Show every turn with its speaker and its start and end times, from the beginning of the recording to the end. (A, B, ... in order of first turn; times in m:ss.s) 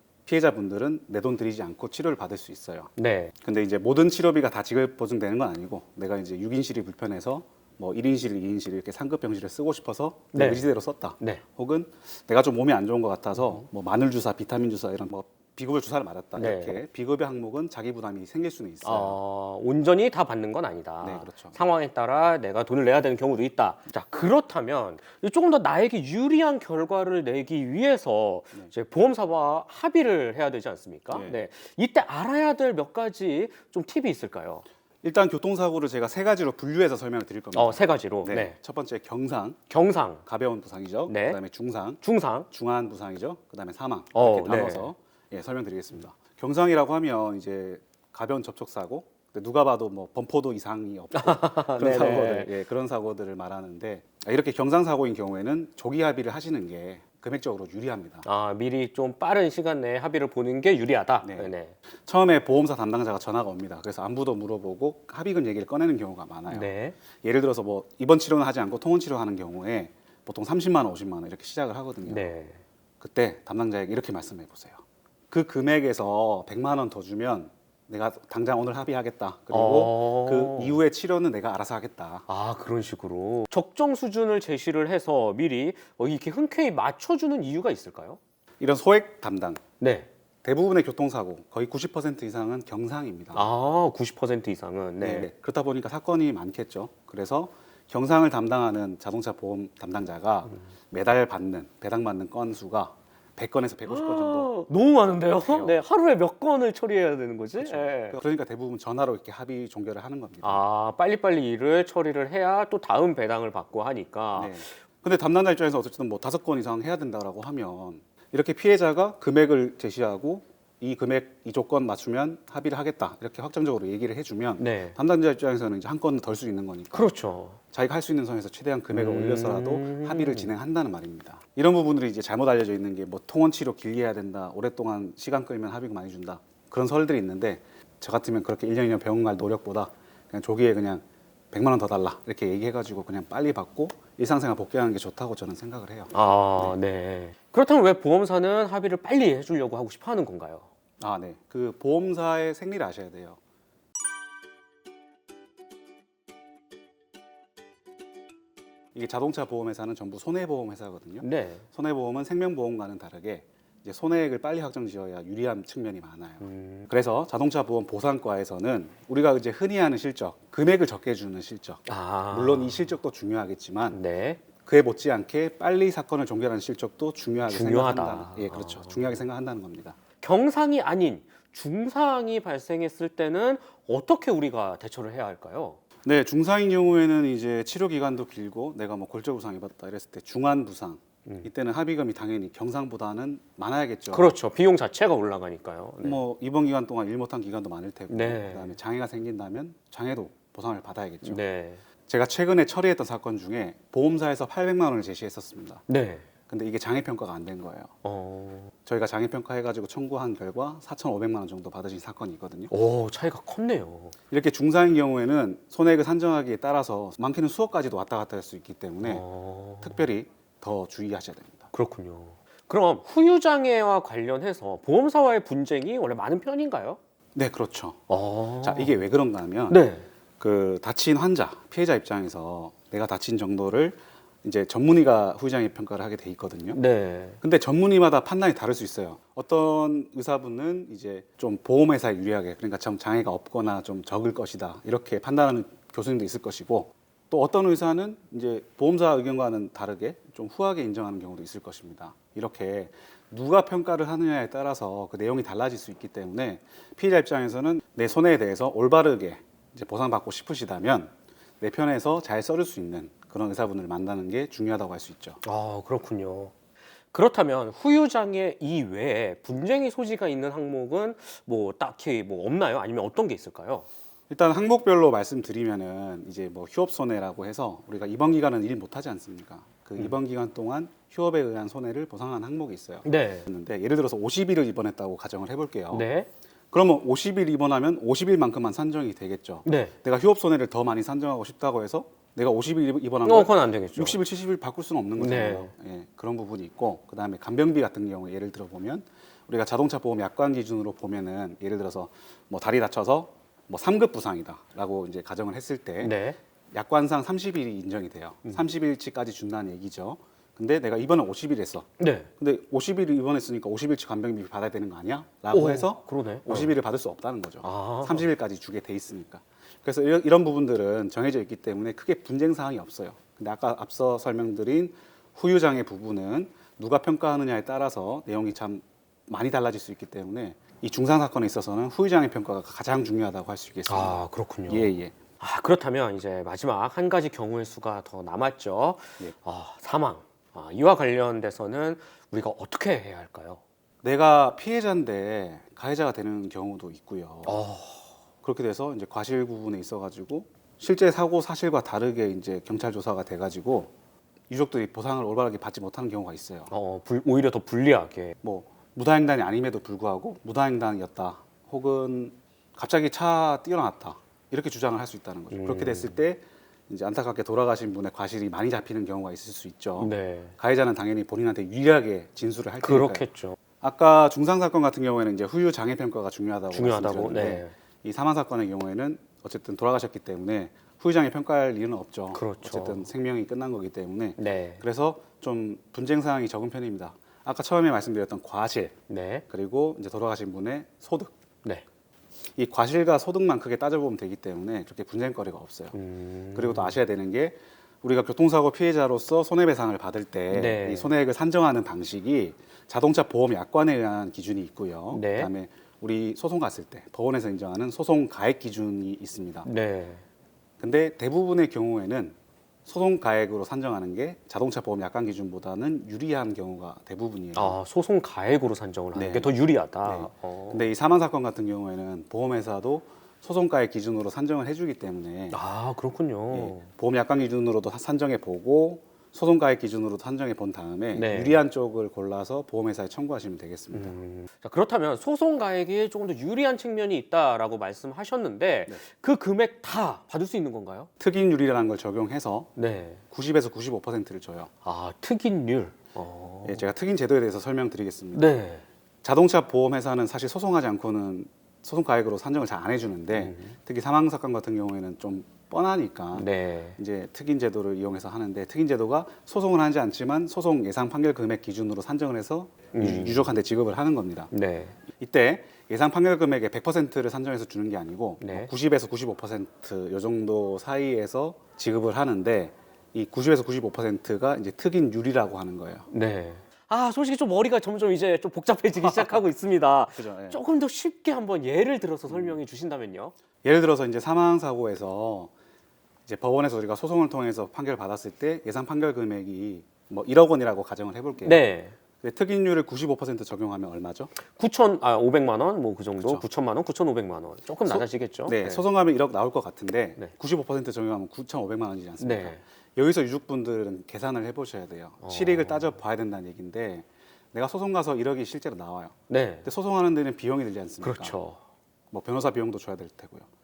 0:00.2-0:19.2 A
0:03.0-0:03.3 B
0:10.3-0:10.7 B
0:13.4-0:13.6 B
0:16.4-0:16.8 B
0:18.8-0:34.6 B
0:21.0-0:21.6 A
0:31.1-0:31.4 A
0:35.0-0:39.6 A
0:37.5-0:38.6 B
0:39.7-0:40.2 B
0:40.2-0:58.2 A
0:41.1-0:41.4 B
0:42.0-0:42.5 B
0:44.1-0:44.9 B
0:51.1-0:52.5 B
0:58.2-1:01.7 B
1:01.2-1:01.5 A
1:02.0-1:06.7 A
1:06.5-1:06.9 B
1:07.2-1:12.3 A
1:12.0-1:12.6 B
1:13.0-1:22.2 A
1:19.5-1:20.8 B
1:22.3-1:28.2 B
1:28.6-1:29.6 A
1:29.8-1:30.1 B
1:30.4-1:33.5 A
1:33.3-1:35.3 B
1:35.0-1:44.5 A
1:43.9-1:48.2 B
1:45.4-1:45.8 A
1:47.6-1:50.6 A
1:50.4-1:54.7 B
1:54.3-2:07.1 A
2:04.6-2:05.0 B
2:06.9-2:07.6 B
2:07.7-2:26.7 A
2:08.9-2:10.5 B
2:26.1-2:30.6 B
2:31.0-2:33.4 A
2:38.9-2:54.0 A
2:41.2-2:41.6 B
2:46.4-2:46.9 B
2:51.9-2:52.8 B
2:53.9-2:54.4 B
2:54.6-3:00.0 A
2:57.5-2:59.2 B
3:00.2-3:05.8 B
3:06.0-3:14.3 A
3:14.1-3:16.2 B
3:16.0-3:21.4 A
3:18.1-3:18.7 B
3:21.2-3:21.8 B
3:22.1-3:25.8 A
3:25.9-3:26.2 B
3:26.5-3:27.9 A
3:28.0-3:28.7 B
3:28.8-3:32.7 A
3:32.7-3:34.1 B
3:34.3-3:39.2 A
3:39.0-3:40.0 B
3:39.8-3:41.7 A
3:41.7-3:47.0 B
3:47.3-3:48.0 A
3:48.1-3:48.9 B
3:48.6-3:49.8 A
3:49.7-3:50.0 B
3:50.4-3:56.8 A
3:56.7-3:57.4 B
3:57.4-4:25.4 A
4:25.4-4:26.5 B
4:27.1-4:33.9 B
4:34.3-4:46.1 A
4:43.0-4:43.5 B
4:45.9-4:46.3 B
4:46.7-5:06.1 A
4:49.6-4:49.9 B
4:53.2-4:54.2 B
4:55.2-4:55.7 B
5:06.0-5:06.4 B
5:06.7-5:35.2 A
5:12.0-5:12.3 B
5:15.5-5:16.7 B
5:17.6-5:18.3 B
5:33.9-5:43.6 B
5:44.0-5:47.6 A
5:47.4-5:48.1 B
5:48.4-5:53.9 A
5:54.5-5:56.7 A
5:56.7-5:58.4 B
5:58.4-6:13.2 A
6:05.5-6:06.2 B
6:10.0-6:10.5 B
6:12.8-6:13.6 B
6:13.8-6:28.9 A
6:16.7-6:17.7 B
6:22.3-6:23.1 B
6:24.4-6:24.8 B
6:29.1-6:29.4 B
6:29.5-6:31.3 A
6:32.5-6:35.9 A
6:35.9-6:37.0 B
6:36.5-6:49.7 A
6:40.5-6:41.1 B
6:45.1-6:45.5 B
6:49.6-6:50.2 B
6:50.8-6:57.8 A
6:57.5-7:00.9 B
6:59.1-7:05.6 A
7:05.5-7:06.9 B
7:06.5-7:14.2 A
7:11.1-7:11.6 B
7:13.9-7:21.1 B
7:21.2-7:22.7 A
7:22.8-7:23.2 B
7:23.3-7:24.7 A
7:24.8-7:26.8 B
7:26.6-7:28.5 A
7:28.3-7:28.8 B
7:29.2-7:44.5 A
7:33.3-7:33.8 B
7:36.3-7:37.0 B
7:42.9-7:43.5 B
7:44.5-7:44.9 B
7:45.2-7:56.1 A
7:48.4-7:48.7 B
7:56.1-8:03.3 B
8:00.1-8:00.6 A
8:02.3-8:02.6 A
8:03.6-8:05.5 A
8:06.2-8:11.6 A
8:11.4-8:12.0 B
8:12.2-8:14.3 A
8:14.5-8:18.8 B
8:16.2-8:16.4 A
8:17.8-8:31.4 A
8:22.2-8:22.6 B
8:25.2-8:25.9 B
8:29.3-8:29.7 B
8:31.0-8:31.6 B
8:32.1-8:33.5 A